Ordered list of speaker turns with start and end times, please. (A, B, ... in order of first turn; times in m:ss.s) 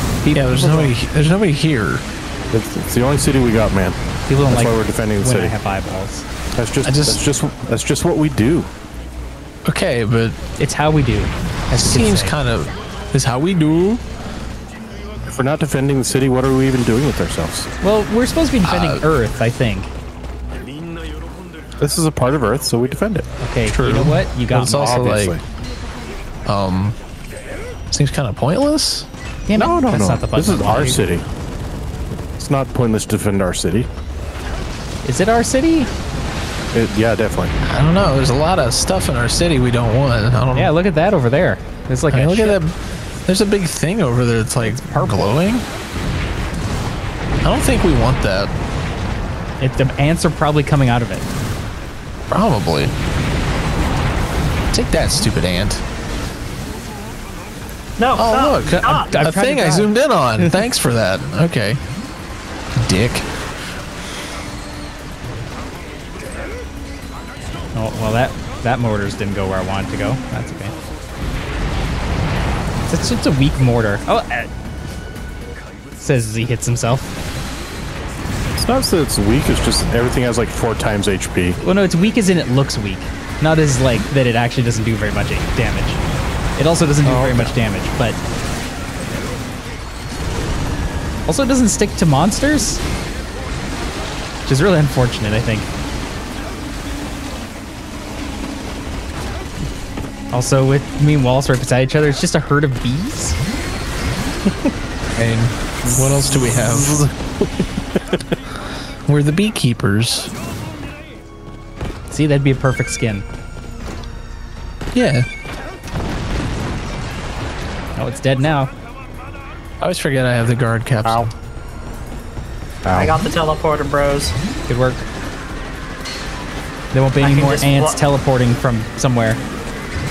0:00.2-0:01.0 A
0:00.3-0:02.0 B
0:02.5-0:05.5 C
0:04.3-0:06.3 A
0:06.6-0:08.7 C
0:06.8-0:07.2 B
0:09.6-0:10.4 B
0:10.6-0:12.3 A
0:11.7-0:14.0 B
0:15.3-0:17.7 C
0:17.8-0:19.9 A
0:18.6-0:19.0 B
0:21.8-0:23.2 C
0:23.4-0:25.3 A
0:23.6-0:25.4 B
0:24.7-0:25.4 C
0:26.4-0:27.0 B
0:27.9-0:29.1 B
0:29.5-0:31.0 A
0:29.5-0:31.2 C
0:32.4-0:33.9 C
0:35.0-0:35.9 A
0:36.7-0:37.5 C
0:37.6-0:40.7 B
0:40.5-0:42.6 A
0:42.1-0:45.6 B
0:44.6-0:45.3 A
0:47.4-0:48.5 B
0:49.6-0:51.3 A
0:52.3-0:52.9 B
0:54.7-0:55.8 B
0:58.0-0:59.1 D
0:58.1-1:01.8 B
0:59.0-1:00.6 A
1:02.7-1:03.3 B
1:07.7-1:10.7 A
1:12.9-1:14.5 A
1:16.0-1:17.1 A
1:18.6-1:21.6 C
1:21.6-1:26.0 A
1:26.6-1:28.2 A
1:27.0-1:27.6 C
1:31.2-1:32.8 A
1:34.4-1:35.7 A
1:40.3-1:43.4 A
1:45.2-1:47.1 B
1:45.9-1:47.1 C
1:49.0-1:50.3 B
1:52.1-1:53.2 A
1:54.9-1:55.2 B
1:58.0-1:58.7 A
1:59.8-2:01.3 B
2:02.8-2:03.2 C
2:02.9-2:04.4 D
2:04.7-2:05.1 A
2:06.9-2:09.4 A
2:07.2-2:08.0 D